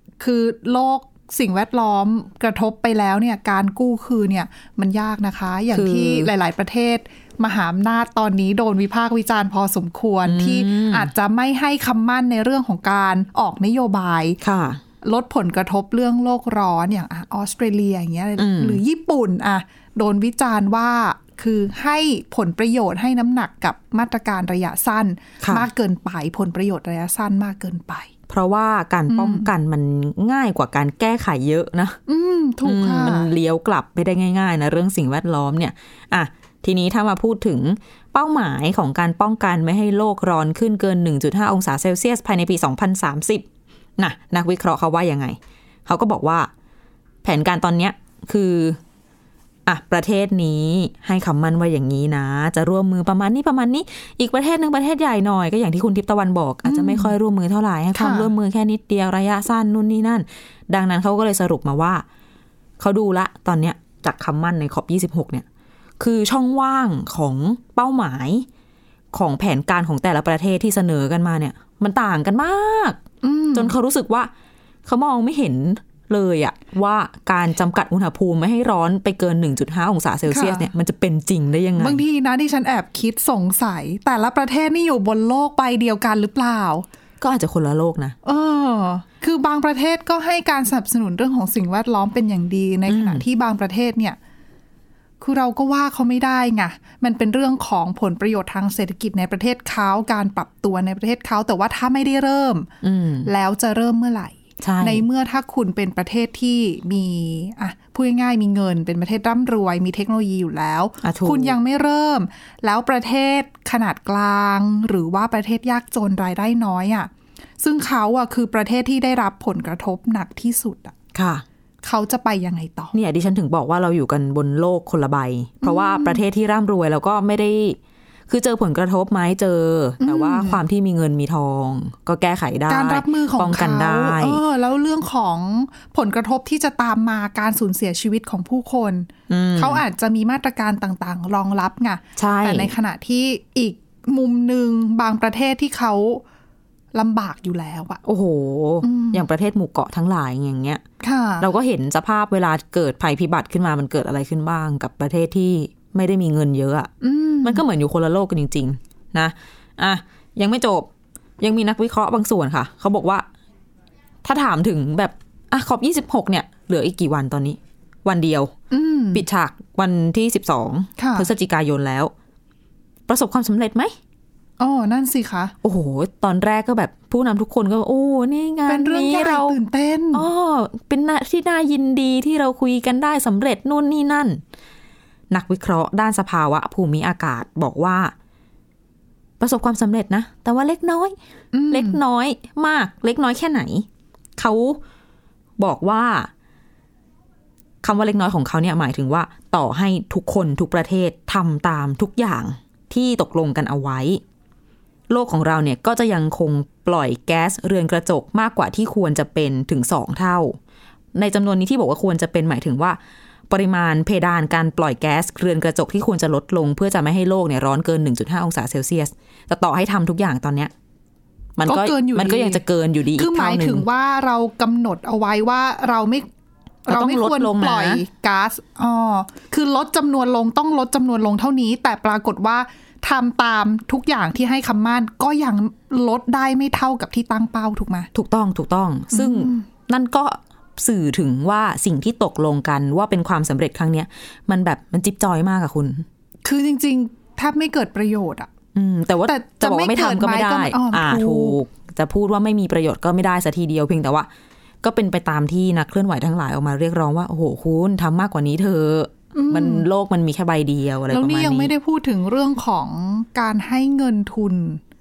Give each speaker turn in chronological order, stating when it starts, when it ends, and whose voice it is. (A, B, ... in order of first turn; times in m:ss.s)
0:00.2-0:14.4 A
0:05.7-0:06.3 B
0:10.2-0:11.1 B
0:14.4-0:14.8 B
0:15.0-0:28.1 A
0:18.4-0:18.8 B
0:25.4-0:25.7 B
0:28.3-0:32.0 B
0:29.1-0:29.5 A
0:32.1-0:33.3 A
0:32.6-0:43.5 B
0:44.0-0:46.5 B
0:47.2-0:48.8 B
0:49.7-1:02.0 B
0:56.6-0:57.1 A
0:58.0-0:58.3 A
1:02.8-1:05.4 B
1:06.0-1:08.5 B
1:09.1-1:13.0 B
1:13.2-1:13.8 A
1:13.5-1:14.3 B
1:14.8-1:22.0 B
1:20.3-1:20.7 A
1:21.8-1:26.9 A
1:27.2-1:28.2 B
1:28.2-1:34.2 A
1:32.9-1:33.2 B
1:35.2-1:42.7 A
1:42.8-1:43.3 B
1:43.3-2:00.9 A
1:44.6-1:45.0 B
1:51.0-1:51.6 B
2:01.1-2:01.4 B
2:01.8-2:02.9 A
2:02.9-2:14.4 B
2:05.6-2:06.2 A
2:10.0-2:10.6 A
2:12.7-2:26.2 A
2:19.3-2:19.8 B
2:22.2-2:22.7 B
2:26.9-2:28.0 A
2:28.0-2:30.8 B
2:28.8-2:29.3 A
2:31.0-2:31.5 A
2:31.4-2:43.3 B
2:37.0-2:37.6 A
2:44.2-2:48.5 B
2:48.7-2:49.2 A
2:49.1-2:52.1 B
2:51.0-2:51.3 A
2:53.1-2:54.0 B
2:54.6-2:55.5 A
2:55.6-2:59.6 B
2:58.7-3:00.3 A
3:00.1-3:04.4 B
3:05.3-3:08.1 B
3:09.4-3:11.2 B
3:11.5-3:12.0 A
3:11.7-3:14.8 B
3:15.6-3:16.3 B
3:17.8-3:24.2 B
3:25.1-3:30.6 B
3:31.1-3:40.7 B
3:41.6-3:43.9 B
3:41.6-3:42.6 A
3:43.2-3:46.3 A
3:46.9-3:58.1 A
3:46.9-3:48.0 B
3:58.1-4:06.1 B
3:59.1-3:59.7 A
4:06.4-4:08.5 A
4:08.8-4:14.3 B
4:09.2-4:11.6 A
4:14.8-4:21.7 B
4:19.3-4:19.9 A
4:21.1-4:24.8 A